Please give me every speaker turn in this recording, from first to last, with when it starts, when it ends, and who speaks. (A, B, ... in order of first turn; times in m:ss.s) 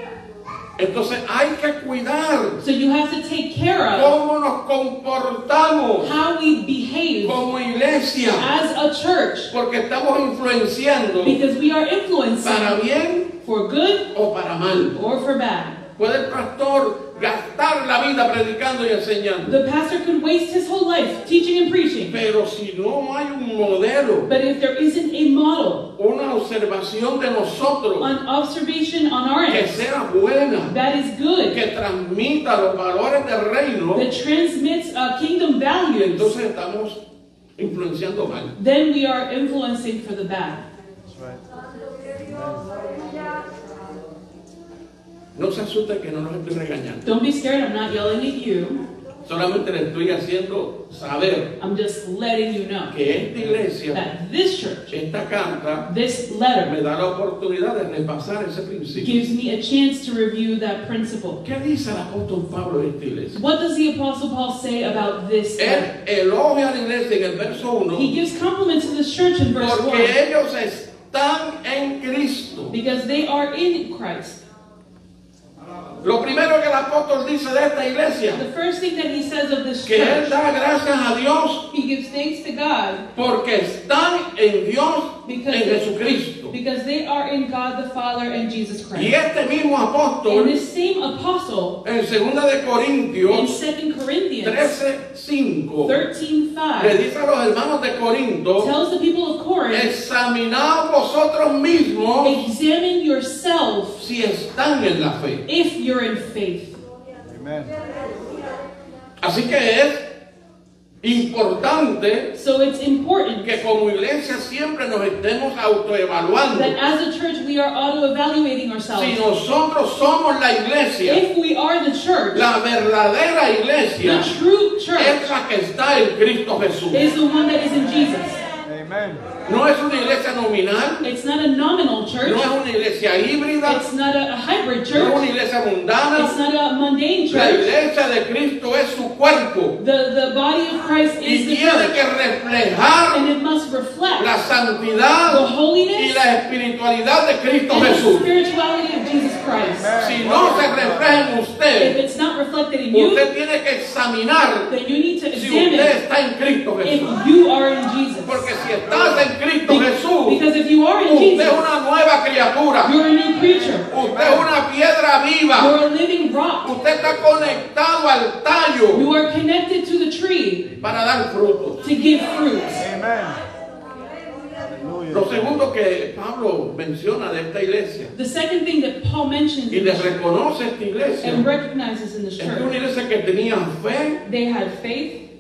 0:00.8-0:02.6 A
0:02.6-0:04.1 B
0:03.9-0:06.2 A
0:06.0-0:07.4 B
0:07.2-0:08.5 A
0:08.4-0:09.5 B
0:09.5-0:11.4 A
0:11.2-0:12.8 B
0:12.4-0:13.3 A
0:13.4-0:14.1 B
0:14.1-0:15.0 A
0:14.9-0:15.8 B
0:16.0-0:19.6 A
0:19.4-0:22.2 B
0:22.1-0:24.3 A
0:24.3-0:25.9 B
0:26.0-0:28.1 A
0:28.0-0:29.8 B
0:29.5-0:30.7 A
0:30.7-0:31.6 B
0:31.5-0:34.0 A
0:33.9-0:36.3 B
0:35.9-0:37.0 A
0:37.6-0:38.5 A
0:38.6-0:40.6 B
0:41.0-0:41.4 C
0:42.2-0:42.6 C
0:45.3-0:47.0 A
0:47.0-0:48.8 B
0:49.2-0:51.5 A
0:51.6-0:52.9 B
0:52.9-0:54.0 A
0:53.9-0:54.9 B
0:54.9-0:55.8 A
0:55.8-0:56.7 B
0:56.6-0:59.2 A
0:59.0-1:01.4 B
1:01.4-1:03.4 A
1:03.3-1:05.9 B
1:05.6-1:08.1 A
1:07.9-1:10.1 B
1:09.6-1:12.7 A
1:12.7-1:14.4 B
1:16.0-1:18.4 A
1:18.3-1:20.4 B
1:19.8-1:21.7 A
1:21.7-1:23.0 B
1:23.2-1:26.5 A
1:25.2-1:26.0 B
1:26.5-1:29.1 B
1:28.9-1:30.6 A
1:30.3-1:31.8 B
1:31.8-1:33.6 A
1:33.3-1:34.8 B
1:34.4-1:36.0 A
1:35.8-1:37.1 B
1:36.8-1:38.7 A
1:38.6-1:39.9 B
1:39.7-1:42.4 A
1:42.2-1:44.0 B
1:44.0-1:45.4 A
1:45.4-1:46.8 B
1:47.3-1:47.8 C
1:49.2-1:50.0 A
1:51.0-1:52.3 A
1:52.3-1:53.6 B
1:53.4-1:56.7 A
1:56.5-1:59.2 B
1:58.9-2:01.2 A
2:01.0-2:02.5 B
2:02.3-2:04.3 A
2:04.0-2:05.3 B
2:05.0-2:07.0 A
2:06.9-2:08.4 B
2:08.6-2:09.3 C
2:09.4-2:11.0 A
2:11.0-2:12.5 B
2:12.2-2:13.8 A
2:13.6-2:15.2 B
2:14.9-2:16.4 A
2:16.2-2:17.7 B
2:17.3-2:19.8 A
2:19.8-2:22.0 B
2:21.2-2:23.2 A
2:23.1-2:24.3 B
2:24.2-2:28.2 A
2:25.3-2:26.2 B
2:27.7-2:29.9 B
2:29.7-2:31.4 C
2:30.0-2:32.0 A
2:31.8-2:33.2 B
2:32.9-2:34.7 A
2:34.7-2:35.9 B
2:35.3-2:37.2 A
2:36.8-2:38.5 B
2:38.2-2:40.4 A
2:39.6-2:41.6 B
2:41.0-2:42.9 A
2:42.8-2:43.9 B
2:43.9-2:45.8 A
2:44.0-2:44.5 C
2:45.5-2:46.7 B
2:46.6-2:49.1 A
2:48.9-2:50.7 B
2:50.8-2:51.8 A
2:51.8-2:52.8 B
2:52.8-2:53.4 C
2:54.6-2:55.6 C
2:55.1-2:58.1 A
2:58.1-3:00.1 B
2:59.7-3:01.4 A
3:01.2-3:02.7 B
3:02.4-3:04.2 A
3:04.2-3:05.2 B